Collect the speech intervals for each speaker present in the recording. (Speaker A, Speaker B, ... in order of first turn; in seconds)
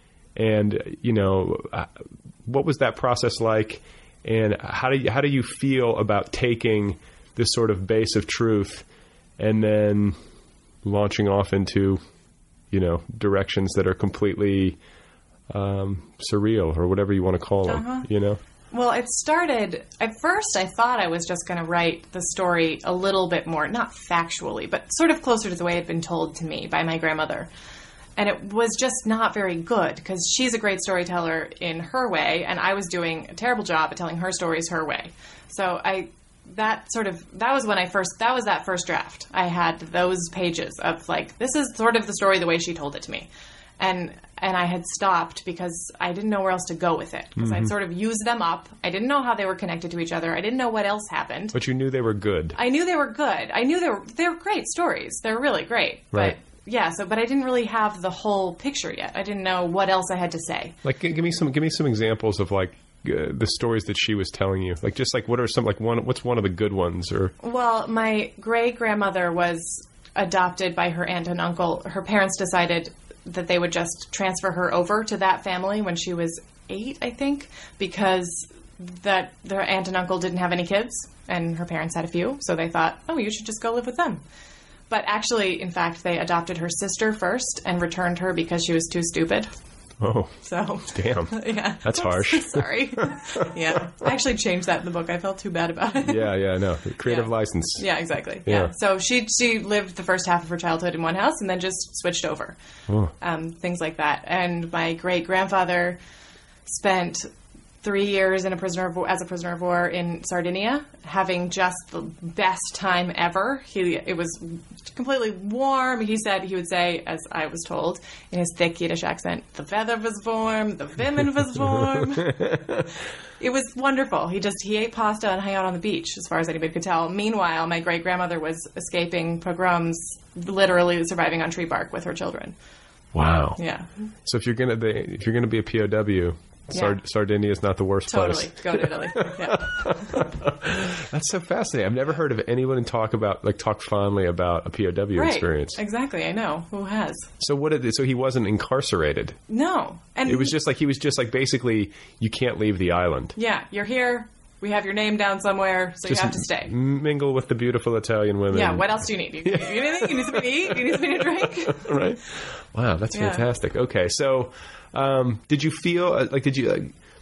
Speaker A: 0.3-1.9, 2.4-8.8, 9.4-10.2, 10.8-12.0, 12.7-14.8, 15.5-18.4, 47.4-47.7, 51.5-52.6, 60.8-67.3, 90.0-93.2, 96.0-97.8, 122.3-122.8, 133.1-133.6, 134.2-145.8, 147.4-149.4, 150.2-153.3, 156.1-166.9
Speaker B: 17.6-18.1, 18.7-27.5, 28.2-43.3, 43.8-51.6, 52.5-60.8, 67.4-84.2, 84.9-89.5, 90.4-96.3, 97.0-102.6, 103.2-106.0, 106.7-107.3, 107.8-122.5, 123.4-132.5, 133.6-133.9, 138.1-140.1, 145.1-147.3, 149.5-150.5, 153.3-156.7, 158.5-161.9, 163.1-163.4